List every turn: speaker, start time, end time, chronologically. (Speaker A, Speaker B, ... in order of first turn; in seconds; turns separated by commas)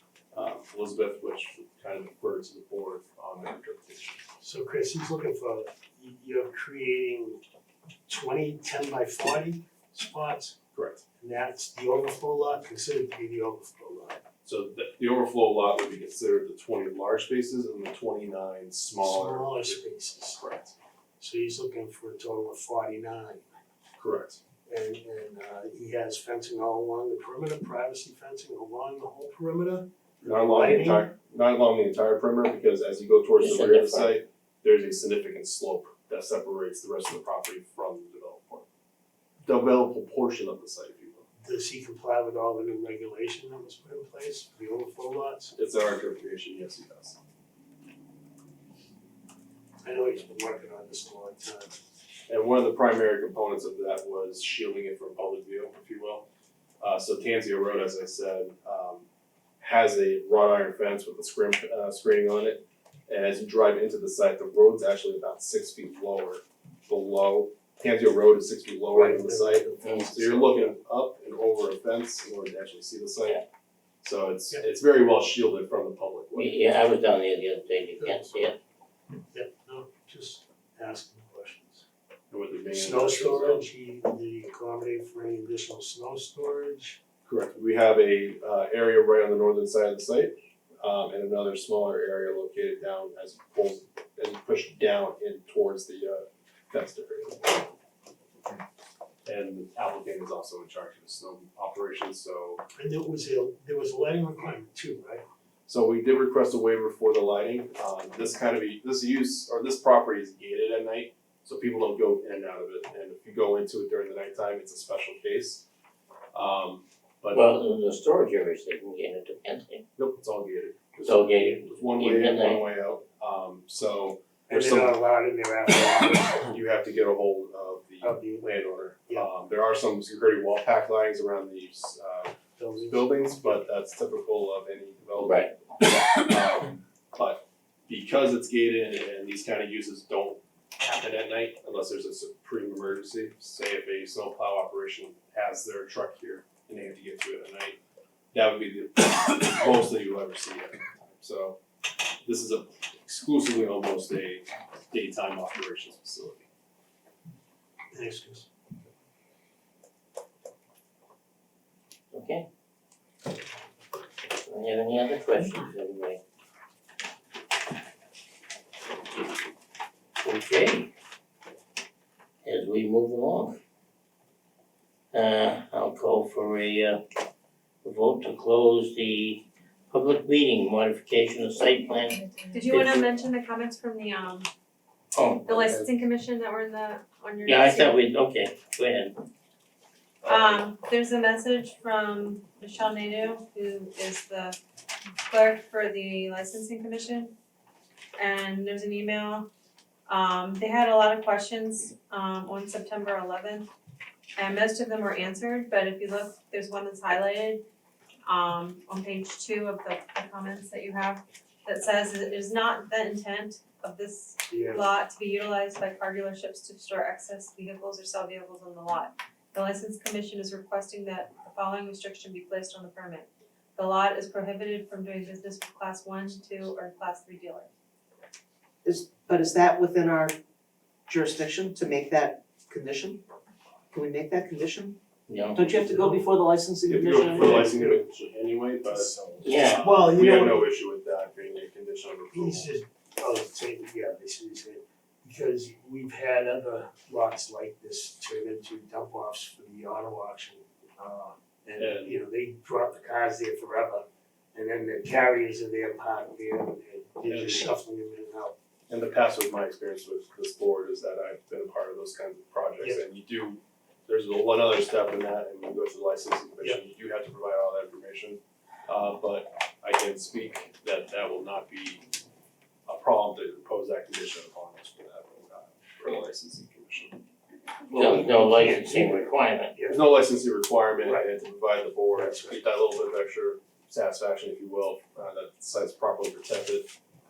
Speaker A: 0.3-4.2, Speaker B: 4.4-7.4, Speaker B: 8.1-10.6, Speaker A: 10.7-11.0, Speaker B: 11.2-14.2, Speaker A: 14.4-20.8, Speaker B: 19.0-20.4, Speaker B: 21.2-23.5, Speaker A: 24.0-24.4, Speaker B: 24.7-31.1, Speaker A: 30.2-38.7, Speaker C: 33.4-34.2, Speaker A: 39.4-41.3, Speaker B: 41.4-45.5, Speaker A: 45.5-47.2, Speaker B: 49.8-51.8, Speaker A: 52.3-56.3, Speaker A: 56.8-59.1, Speaker A: 59.6-73.4, Speaker B: 68.9-70.7, Speaker C: 69.8-70.2, Speaker A: 74.0-76.7, Speaker C: 76.3-78.6, Speaker B: 78.0-78.4, Speaker B: 79.3-81.8, Speaker A: 82.3-83.7, Speaker B: 82.7-87.0, Speaker A: 87.2-97.7, Speaker A: 99.2-102.6, Speaker B: 102.8-105.2, Speaker A: 105.7-115.7, Speaker A: 116.3-117.5, Speaker C: 117.3-119.8, Speaker A: 120.0-125.0, Speaker C: 121.0-122.7, Speaker B: 124.5-126.4, Speaker A: 125.7-147.8, Speaker B: 128.0-128.5, Speaker B: 132.6-133.3, Speaker C: 135.2-135.5, Speaker A: 148.3-151.6, Speaker A: 152.2-156.5, Speaker B: 157.9-158.5, Speaker C: 162.1-162.5, Speaker C: 164.5-166.2, Speaker C: 170.2-170.9, Speaker C: 172.4-173.6, Speaker C: 175.1-177.0, Speaker C: 177.8-183.0, Speaker D: 182.5-184.5, Speaker C: 185.1-185.7, Speaker D: 185.4-188.0, Speaker C: 187.4-189.2, Speaker D: 190.2-194.6, Speaker D: 195.3-197.3, Speaker D: 198.2-199.5, Speaker D: 200.1-203.7, Speaker D: 204.4-207.6, Speaker D: 208.3-227.7, Speaker B: 214.5-214.9, Speaker E: 228.8-230.4, Speaker E: 231.1-233.2, Speaker E: 233.9-235.0, Speaker C: 235.3-235.7, Speaker E: 235.6-237.9, Speaker A: 236.9-242.7, Speaker B: 237.4-237.9, Speaker C: 239.4-239.8, Speaker B: 239.8-240.7, Speaker B: 242.3-258.6, Speaker A: 251.8-252.2, Speaker A: 257.2-257.7, Speaker A: 258.9-272.1, Speaker A: 272.9-277.2, Speaker B: 277.9-280.0, Speaker C: 277.9-279.7, Speaker A: 279.9-286.9, Speaker B: 281.0-281.3, Speaker B: 282.1-282.6